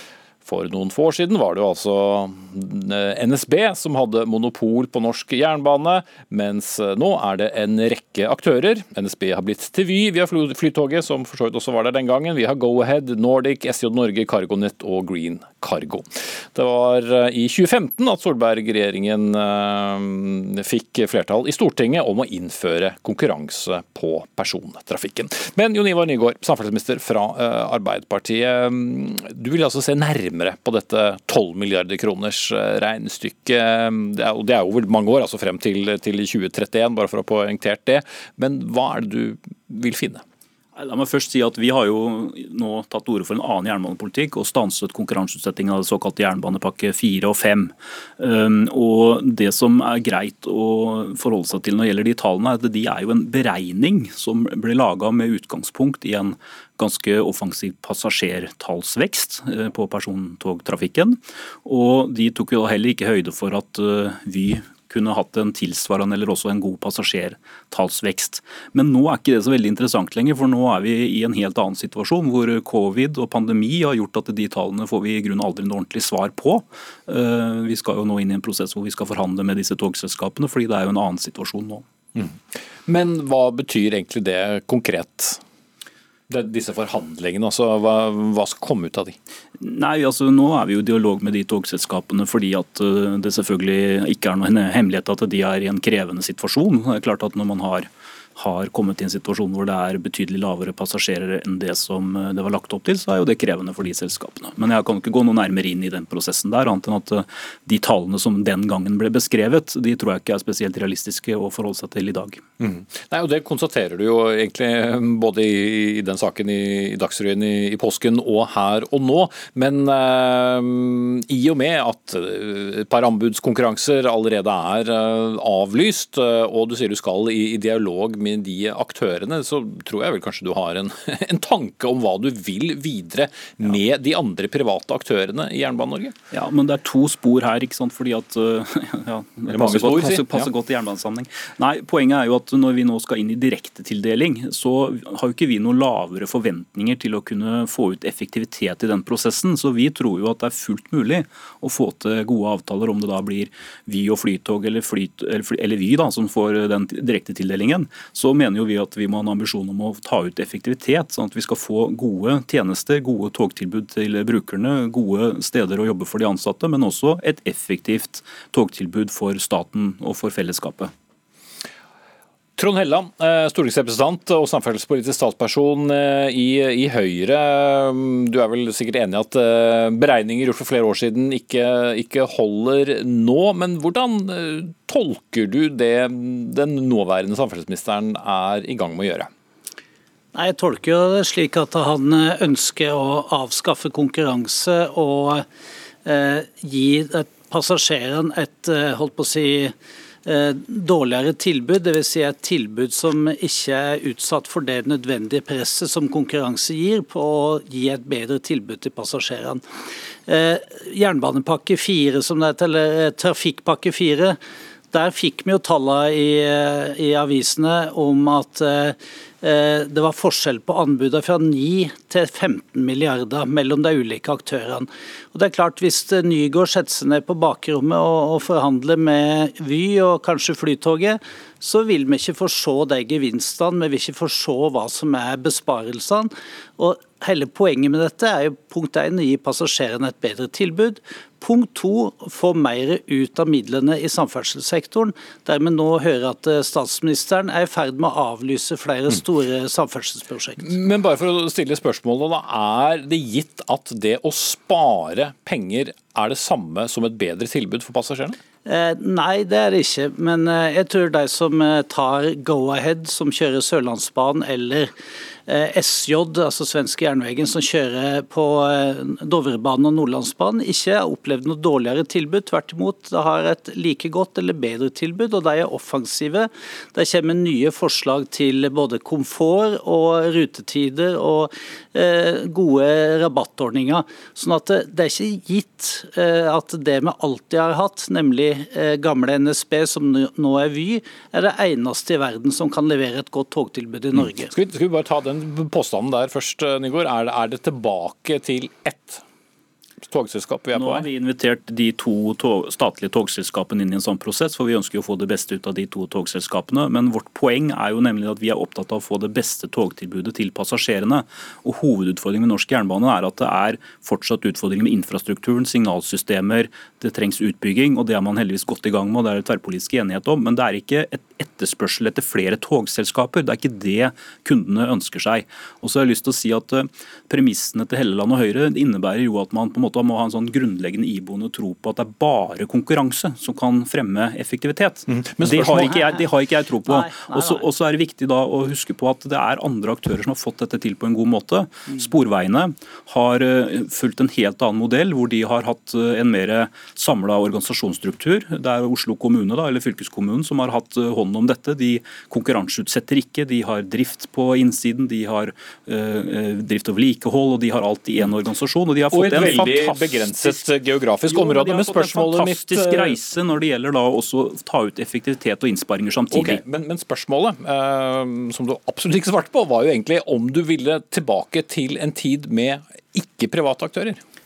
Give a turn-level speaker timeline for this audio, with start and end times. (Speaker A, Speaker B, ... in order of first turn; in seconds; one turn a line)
Speaker A: 0.4-40.2
Speaker B: 40.8-81.8
Speaker A: 82.1-85.4
Speaker A: 86.3-89.2
Speaker B: 89.6-112.4
Speaker A: 112.6-136.2
Speaker B: 136.3-170.9
Speaker A: 139.5-140.5
Speaker A: 172.6-189.3
Speaker C: 190.3-195.4
Speaker C: 196.0-199.7
Speaker C: 200.2-209.6
Speaker C: 210.3-214.4
Speaker C: 214.9-250.6
Speaker A: 250.6-258.4
Speaker C: 258.6-264.9
Speaker C: 265.5-294.5
Speaker A: 294.1-299.2
Speaker A: 300.0-301.1
Speaker B: 300.7-360.6
Speaker A: 335.3-336.0
Speaker C: 335.7-336.2
Speaker C: 336.9-337.6
Speaker A: 359.1-363.2
Speaker B: 361.3-366.6
Speaker A: 366.3-374.2